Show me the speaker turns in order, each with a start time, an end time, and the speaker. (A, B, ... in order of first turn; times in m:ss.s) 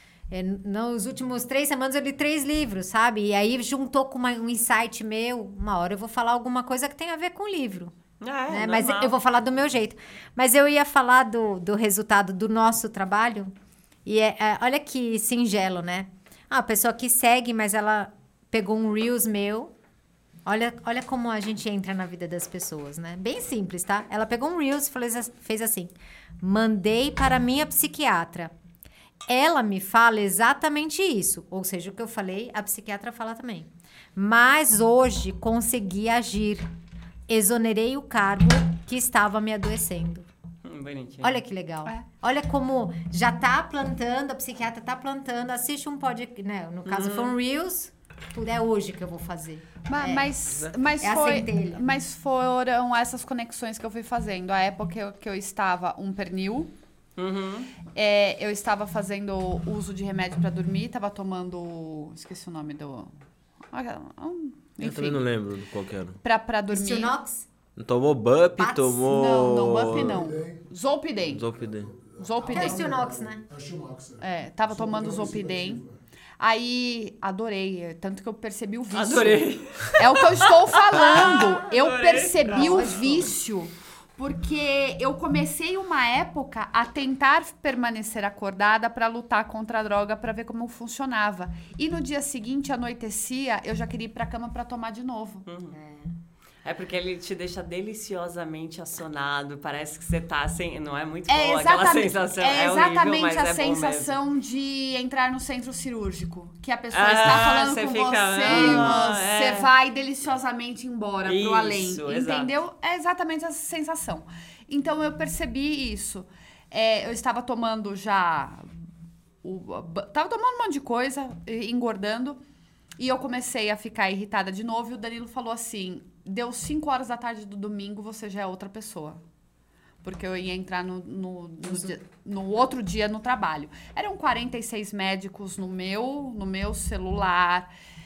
0:00.3-0:07.9 A
0:08.2-0:09.1 B
0:08.5-0:13.5 A
0:14.1-0:19.7 A
0:20.5-0:28.5 A
0:29.3-0:36.7 A
0:37.3-0:40.3 A
0:40.7-0:41.4 B
0:41.2-0:50.3 A
0:46.8-0:47.3 B
0:49.9-0:56.7 C
0:51.0-0:51.9 A
0:57.2-0:57.7 B
0:57.9-1:03.1 C
1:03.7-1:05.2 C
1:04.8-1:06.2 D
1:06.2-1:07.2 C
1:06.7-1:07.5 A
1:07.8-1:10.2 D
1:08.6-1:09.9 A
1:09.2-1:11.5 C
1:09.9-1:10.6 E
1:11.3-1:11.9 D
1:11.7-1:15.9 E
1:12.2-1:13.0 C
1:12.4-1:13.4 A
1:14.2-1:15.8 C
1:16.4-1:35.4 C
1:18.9-1:23.0 B
1:22.5-1:23.2 A
1:35.5-1:35.8 B
1:35.7-1:36.1 A
1:36.6-1:44.2 B
1:41.3-1:58.7 C
1:46.9-1:49.7 B
1:51.2-1:52.5 B
1:59.4-2:02.4 C
2:03.0-2:09.2 C
2:10.0-2:17.7 C
2:11.6-2:12.0 A